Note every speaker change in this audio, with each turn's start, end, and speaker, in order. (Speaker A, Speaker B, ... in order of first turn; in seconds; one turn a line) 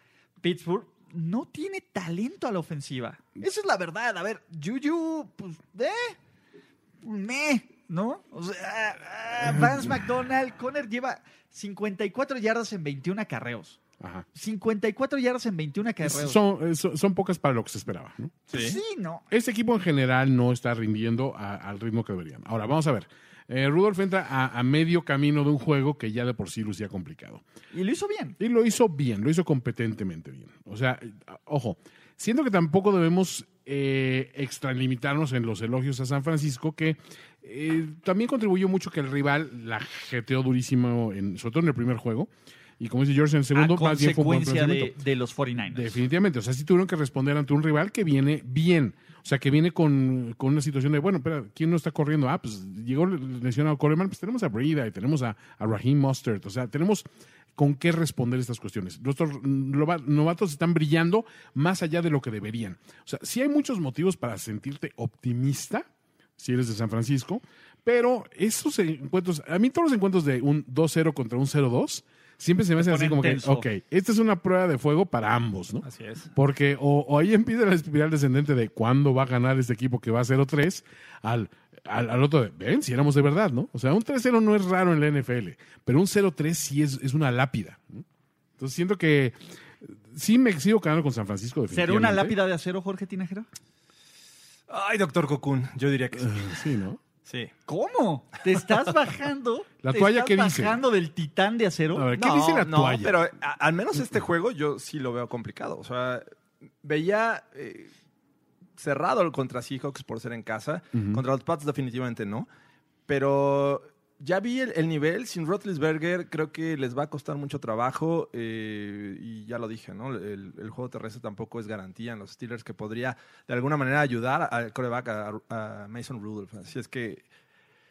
Speaker A: 0.4-6.2
Speaker A: 7.0-13.8
Speaker B: 14.0-14.2
Speaker A: 14.3-16.4
Speaker B: 16.0-18.4
Speaker C: 18.5-18.8
Speaker A: 18.5-19.2
Speaker B: 19.3-27.4
Speaker A: 27.7-28.4
Speaker B: 28.4-45.0
Speaker A: 43.5-46.0
Speaker B: 45.7-88.0
Speaker A: 72.8-73.7
Speaker C: 75.8-76.3
Speaker B: 88.6-92.4
Speaker A: 91.7-93.5
Speaker C: 94.7-96.6
Speaker B: 96.2-97.0
Speaker C: 97.2-97.5
Speaker A: 97.7-102.1
Speaker B: 99.8-100.8
Speaker B: 101.9-103.2
Speaker C: 102.1-106.2
Speaker C: 106.8-107.9
Speaker C: 108.8-112.5
Speaker B: 110.9-111.2
Speaker C: 113.1-127.2